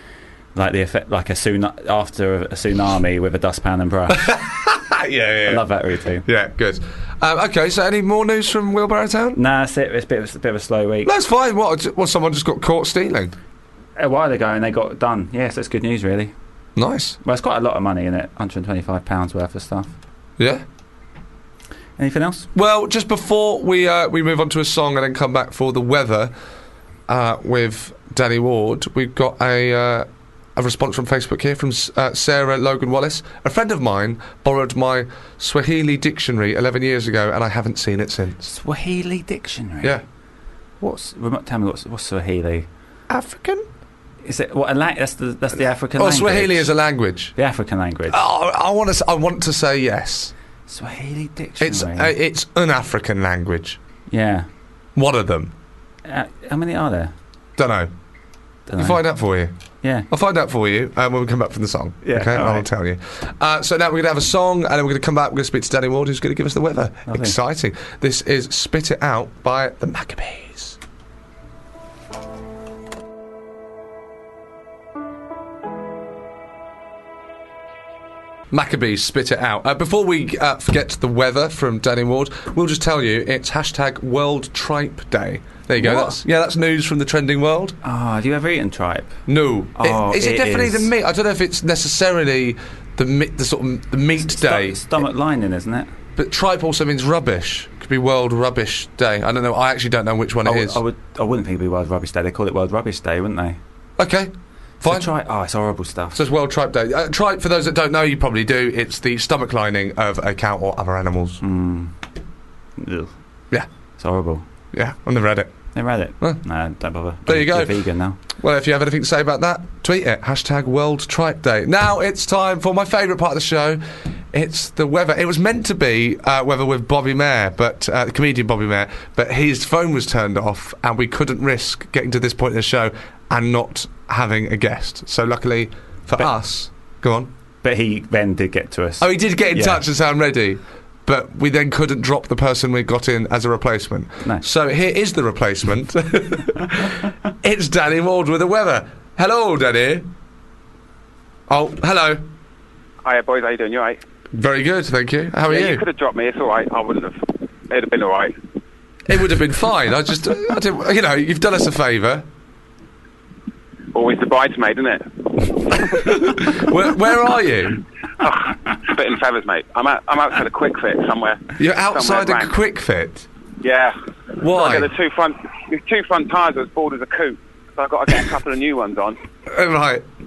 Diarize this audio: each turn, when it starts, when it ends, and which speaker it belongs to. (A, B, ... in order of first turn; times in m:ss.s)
0:00.5-0:04.3 A
0:04.1-0:05.6 B
0:05.5-0:06.2 A
0:06.2-0:09.4 B
0:09.3-0:11.1 A
0:11.0-0:13.4 B
0:14.0-0:16.3 A
0:16.8-0:17.2 B
0:17.2-0:19.9 A
0:20.4-0:20.6 B
0:22.0-0:22.5 A
0:22.5-0:26.3 B
0:27.1-0:38.4 B
0:38.4-0:40.0 A
0:40.8-0:42.7 A
0:43.1-0:43.6 B
0:44.2-0:46.8 A
0:46.0-0:47.3 B
0:47.3-0:48.2 A
0:48.1-0:50.3 B
0:50.7-0:52.1 A
0:51.6-0:53.8 B
0:54.1-0:54.5 A
0:55.0-0:55.5 B
0:56.0-0:57.1 A
0:57.6-0:57.9 B
0:58.7-0:59.0 A
0:58.8-0:59.5 B
0:59.8-1:00.1 A
1:00.1-1:10.8 B
1:02.0-1:02.7 A
1:07.0-1:07.4 A
1:18.5-1:27.8 B
1:25.8-1:26.2 A
1:27.8-1:29.1 A
1:29.3-1:35.0 B
1:29.7-1:30.9 A
1:34.2-1:35.9 A
1:36.2-1:40.8 B
1:40.4-1:43.6 A
1:44.0-1:45.1 B
1:44.8-1:46.2 A
1:46.1-1:51.4 B
1:51.4-1:51.9 A
1:52.8-1:53.1 A
1:54.0-1:54.4 A
1:54.7-1:55.5 B
1:55.7-1:58.2 A
1:57.2-1:57.8 B
1:58.4-2:17.3 B
2:17.6-2:19.8 A
2:19.0-2:30.0 B
2:31.5-2:32.2 B
2:33.0-2:34.0 C
2:34.3-2:35.8 B
2:35.5-2:38.3 C
2:39.0-2:42.2 B
2:43.9-2:46.2 C
2:45.8-2:47.8 B
2:48.2-2:52.5 C
2:51.6-2:53.3 B
2:53.6-2:59.2 C
2:54.4-2:54.9 B
2:59.5-3:00.0 B